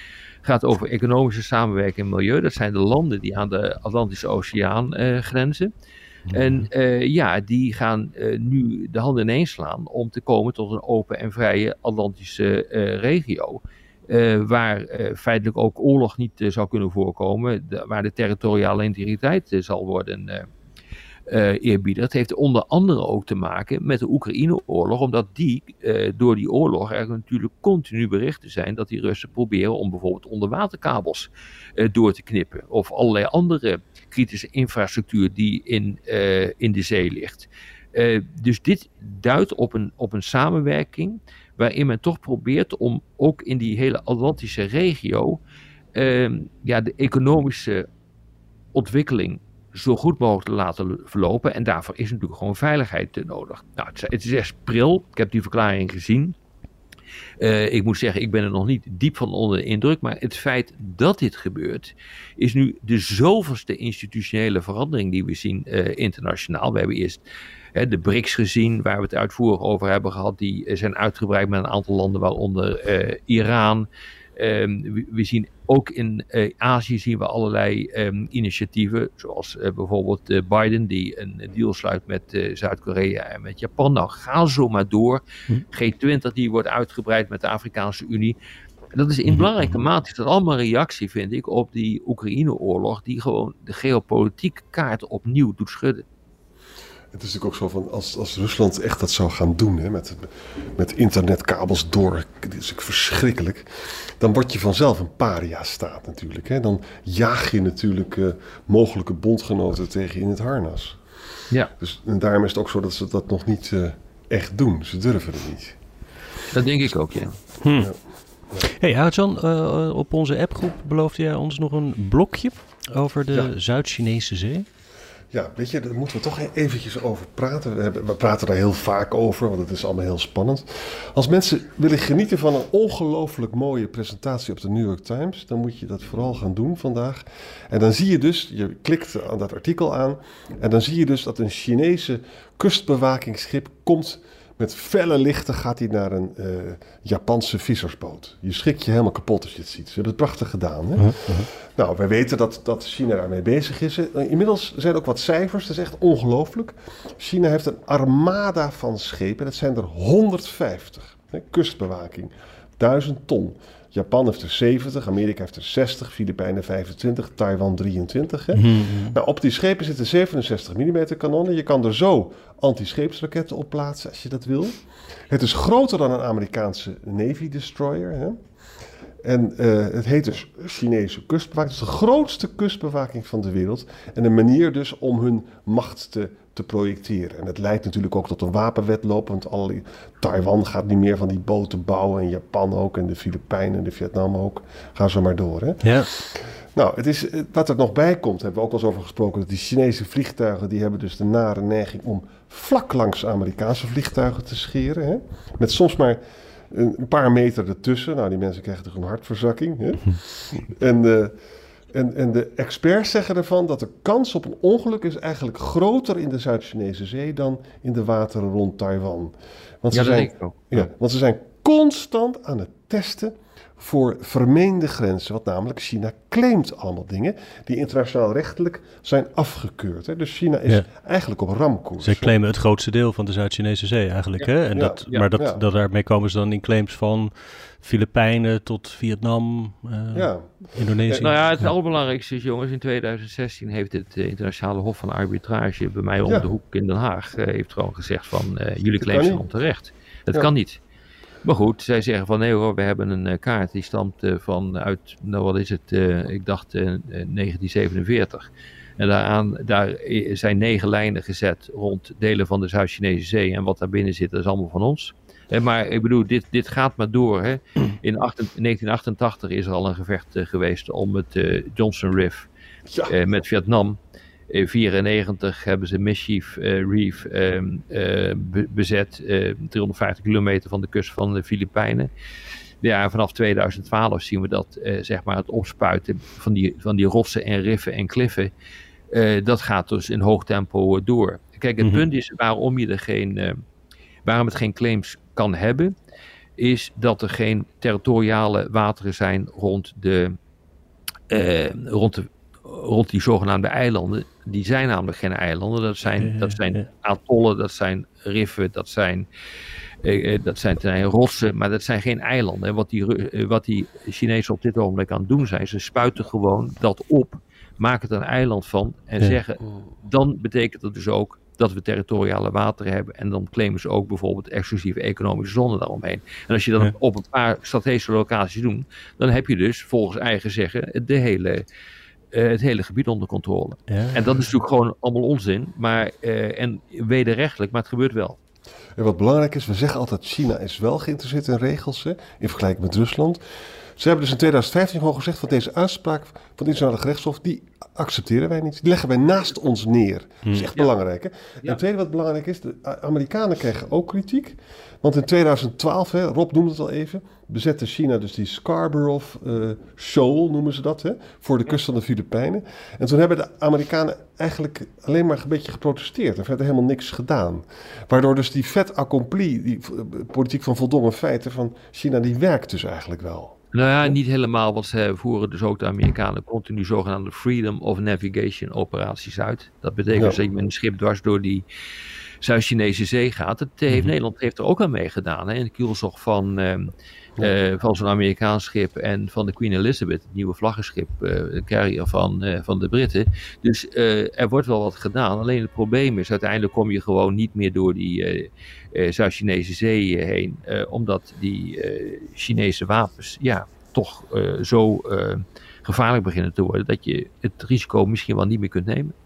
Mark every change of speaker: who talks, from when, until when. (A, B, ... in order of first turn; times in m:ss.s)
0:00.4-0:05.7 A
0:06.3-0:06.7 B
0:06.3-0:20.4 A
0:21.3-0:45.4 A
0:45.9-0:47.9 A
0:48.7-0:56.4 A
0:57.4-1:07.2 A
1:07.7-1:28.4 A
1:28.9-1:36.0 A
1:29.3-1:29.8 B
1:37.1-1:51.0 C
1:51.8-1:55.8 C
1:56.5-1:57.4 A
1:57.6-1:57.9 B
1:58.6-2:04.6 B
2:05.3-2:58.4 C
2:31.0-2:31.5 B
2:48.5-2:49.2 B
2:59.2-3:31.4 C
3:15.8-3:16.1 B
3:31.9-3:52.3 C
3:39.9-3:40.6 A
3:52.0-4:01.7 B
3:54.4-3:55.6 C
4:00.1-4:01.3 C
4:01.2-4:10.8 A
4:09.0-4:09.5 C
4:11.4-4:32.5 A
4:32.9-4:33.1 C
4:33.1-4:34.0 A
4:34.5-4:42.1 A
4:42.8-4:48.5 A
4:49.1-4:53.6 A
4:54.2-4:55.9 A
4:56.6-5:00.4 A
5:01.3-5:09.2 A
5:06.2-5:06.8 B
5:10.0-5:31.6 A
5:32.3-5:38.4 A
5:33.9-5:34.4 B
5:39.0-6:14.1 C
6:13.7-6:21.6 A
6:20.1-6:20.4 C
6:22.4-6:49.1 A